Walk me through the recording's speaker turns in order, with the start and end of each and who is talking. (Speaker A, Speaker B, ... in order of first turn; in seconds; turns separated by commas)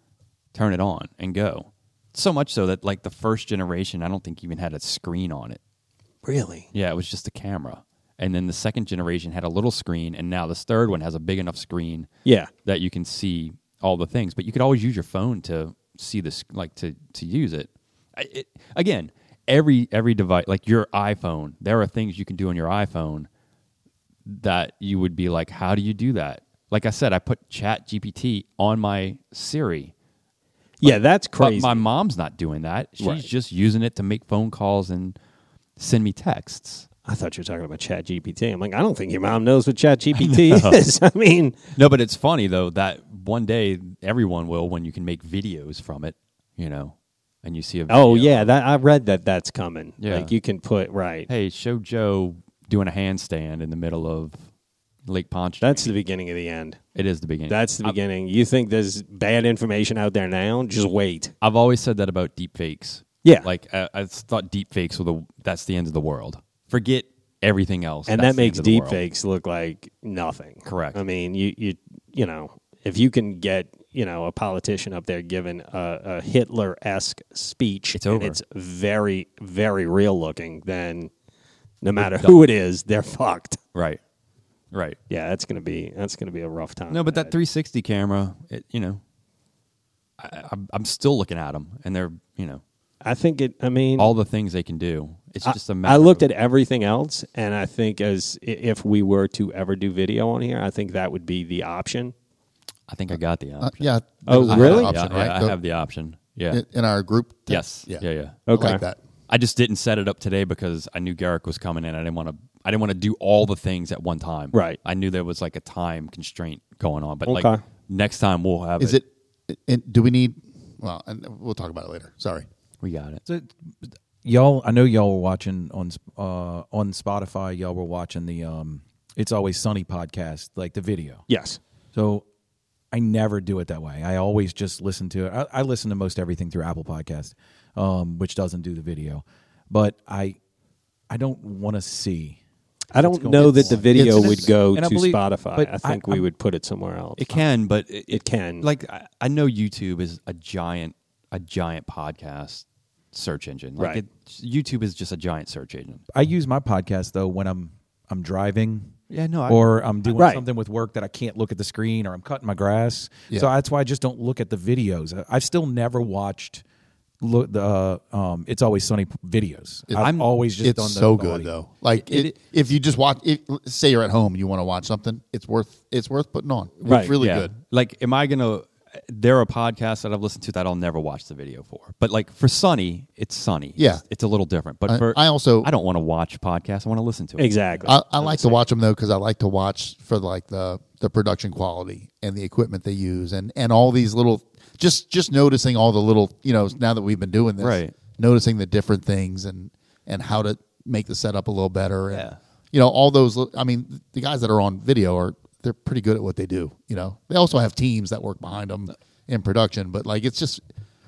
Speaker A: 0.5-5.6, Speaker B: 6.2-6.7, Speaker A: 6.7-12.1, Speaker B: 12.2-12.5, Speaker A: 12.6-23.3, Speaker A: 24.2-29.9, Speaker B: 30.8-31.8, Speaker A: 30.8-35.1, Speaker B: 33.0-33.3, Speaker A: 35.8-36.9, Speaker B: 37.0-41.6, Speaker A: 40.1-40.8, Speaker A: 41.7-48.5, Speaker B: 47.9-51.3, Speaker A: 50.0-50.3, Speaker A: 51.3-54.4, Speaker A: 55.0-55.9, Speaker B: 55.6-56.8, Speaker A: 56.9-57.9, Speaker B: 57.5-61.3, Speaker A: 61.4-69.0, Speaker B: 68.1-81.1, Speaker A: 70.6-71.0, Speaker A: 77.9-78.4, Speaker B: 81.8-83.6, Speaker A: 82.0-82.4, Speaker A: 83.7-84.0, Speaker A: 84.7-85.0, Speaker B: 85.1-87.3, Speaker A: 86.9-89.0, Speaker A: 90.2-92.6, Speaker B: 93.0-94.1, Speaker A: 94.0-96.2, Speaker B: 95.4-102.1, Speaker A: 102.9-103.9, Speaker C: 103.6-105.6, Speaker B: 104.3-104.9, Speaker A: 104.4-106.6, Speaker C: 106.5-109.0, Speaker A: 107.5-108.4, Speaker B: 108.5-108.8, Speaker A: 109.3-119.0, Speaker B: 114.5-114.8, Speaker B: 117.3-117.6, Speaker C: 118.8-122.5, Speaker A: 122.8-123.2, Speaker D: 123.2-123.5, Speaker D: 124.2-131.2, Speaker B: 131.3-131.6, Speaker D: 131.9-132.2, Speaker D: 132.9-140.4, Speaker D: 141.1-142.4, Speaker B: 142.9-147.4, Speaker D: 142.9-146.2, Speaker C: 143.9-144.5, Speaker A: 147.2-156.0, Speaker B: 148.1-148.7, Speaker D: 156.1-158.9, Speaker A: 159.1-159.7, Speaker D: 159.5-166.6, Speaker B: 160.2-160.4, Speaker D: 167.2-171.5, Speaker C: 169.9-177.5, Speaker A: 170.0-170.3, Speaker A: 171.9-172.3, Speaker B: 176.8-177.1, Speaker A: 177.2-187.5, Speaker C: 183.8-184.0, Speaker C: 184.9-185.7, Speaker B: 187.4-188.6, Speaker C: 187.8-210.6, Speaker A: 197.6-197.9, Speaker A: 202.1-202.4